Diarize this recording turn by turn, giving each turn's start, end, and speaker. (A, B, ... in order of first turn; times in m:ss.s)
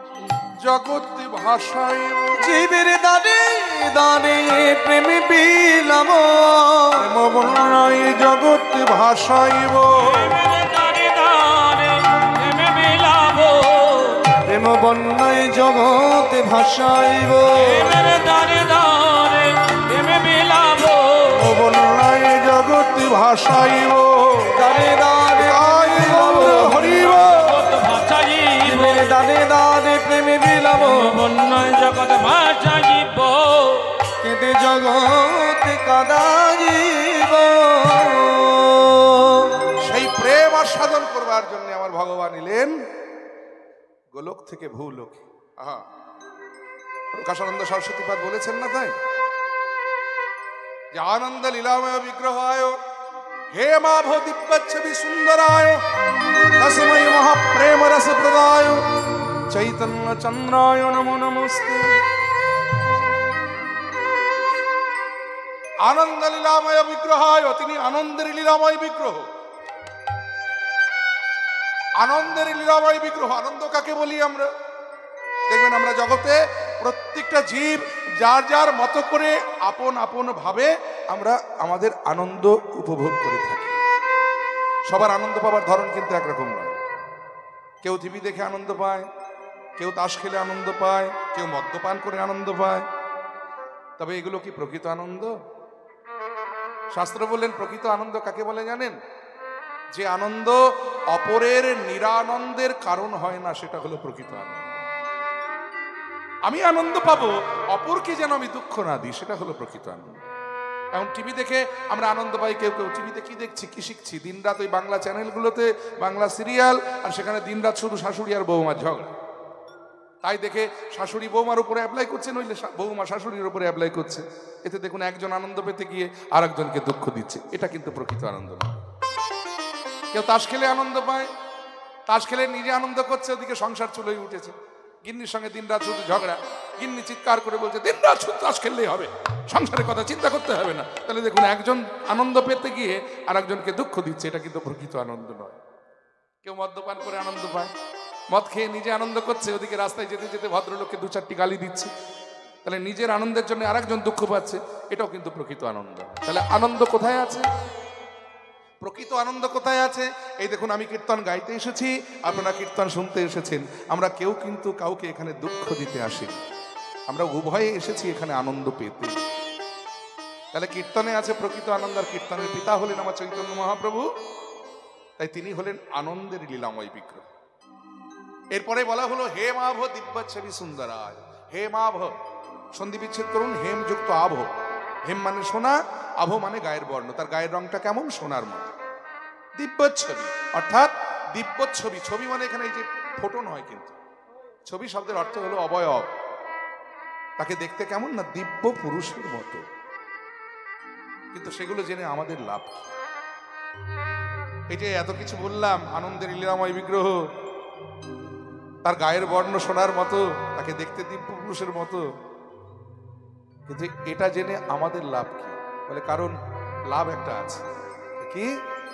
0:00.6-0:02.5 A
0:02.4-0:07.0 B
0:07.0-0:10.3 A
0:10.0-0:14.3 C
0:14.4-0:17.9 B
0:17.6-0:21.4 C
0:21.3-0:24.6 A
0:24.5-0:27.2 B
0:25.4-0:27.6 A
0:26.2-0:29.0 C
0:28.6-0:31.2 B
0:30.8-0:34.0 C
0:34.2-0:39.5 B
0:39.8-0:42.8 A
0:44.1-0:45.8 A
0:47.1-0:49.0 A
0:50.9-0:52.8 A
0:53.5-0:55.8 A
0:56.6-0:58.8 A
0:59.5-1:02.0 A
1:05.8-1:09.3 A
1:12.0-1:14.5 A
1:15.5-1:23.8 A
1:24.9-1:26.8 A
1:27.8-1:29.1 A
1:29.8-1:32.9 A
1:34.0-1:35.3 A
1:36.9-1:39.0 A
1:39.9-1:44.8 A
1:46.5-1:50.2 A
1:50.9-1:59.1 A
2:00.2-2:08.8 A
2:10.1-2:11.3 A
2:12.1-2:25.6 A
2:26.4-2:27.7 A
2:28.3-2:31.9 A
2:32.6-2:37.5 A
2:38.8-2:46.4 A
2:47.1-2:49.2 A
2:50.5-2:54.1 A
2:55.2-2:57.3 A
2:58.5-3:02.2 A
3:02.8-3:04.5 A
3:05.0-3:08.8 A
3:09.6-3:14.0 A
3:14.7-3:16.1 A
3:17.4-3:19.6 A
3:21.3-3:22.9 A
3:24.7-3:27.2 A
3:28.8-3:32.0 A
3:33.7-3:36.4 A
3:36.9-3:37.6 A
3:38.2-3:38.5 A